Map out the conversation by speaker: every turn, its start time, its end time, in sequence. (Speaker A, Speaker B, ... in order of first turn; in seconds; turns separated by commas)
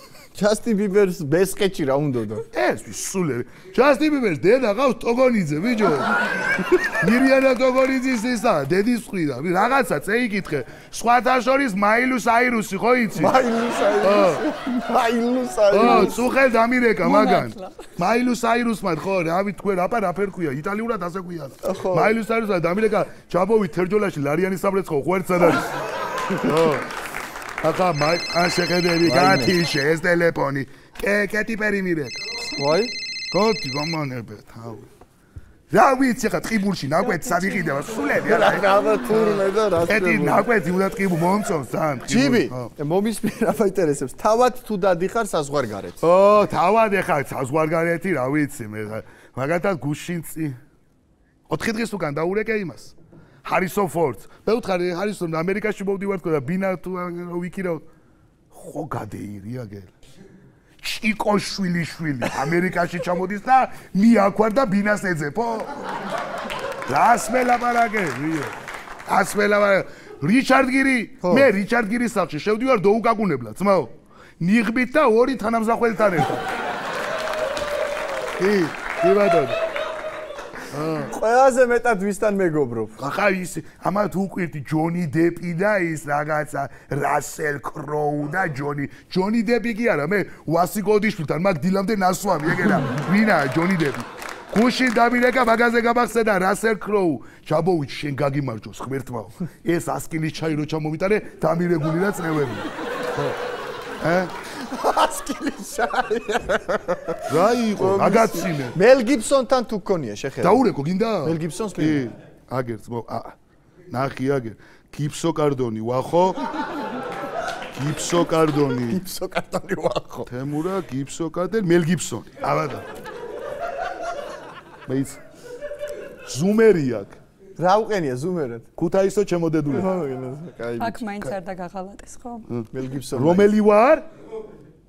Speaker A: 0.3-2.4, Speaker B: 2.5-13.4, Speaker A: 13.2-16.2, Speaker B: 14.0-14.4, Speaker B: 15.7-25.7, Speaker C: 15.8-16.3, Speaker C: 17.0-17.8, Speaker A: 21.6-22.1, Speaker B: 26.4-26.9, Speaker B: 27.6-32.5, Speaker A: 29.0-29.6, Speaker A: 32.6-32.9, Speaker B: 33.3-34.9, Speaker B: 35.7-38.7, Speaker C: 37.0-38.0, Speaker A: 38.2-40.5, Speaker B: 39.2-42.7, Speaker A: 42.1-46.0, Speaker B: 46.0-50.6, Speaker B: 51.5-52.9, Speaker B: 53.4-57.8, Speaker B: 58.5-59.9, Speaker B: 60.8-65.8, Speaker B: 66.9-68.5, Speaker B: 69.1-76.4, Speaker A: 71.2-71.5, Speaker B: 78.4-79.6, Speaker B: 80.7-81.1, Speaker A: 81.1-83.0, Speaker B: 83.0-102.7, Speaker B: 104.0-104.3, Speaker A: 104.5-110.6, Speaker B: 107.3-108.8, Speaker B: 110.4-113.3, Speaker A: 111.2-112.0, Speaker B: 113.9-116.4, Speaker B: 117.8-119.0, Speaker A: 118.9-120.3, Speaker B: 120.3-122.8, Speaker B: 124.9-125.2, Speaker B: 126.3-127.2, Speaker A: 127.6-128.7, Speaker B: 128.8-129.9, Speaker A: 129.7-131.0, Speaker C: 130.8-132.4, Speaker A: 132.7-133.5, Speaker B: 133.1-134.0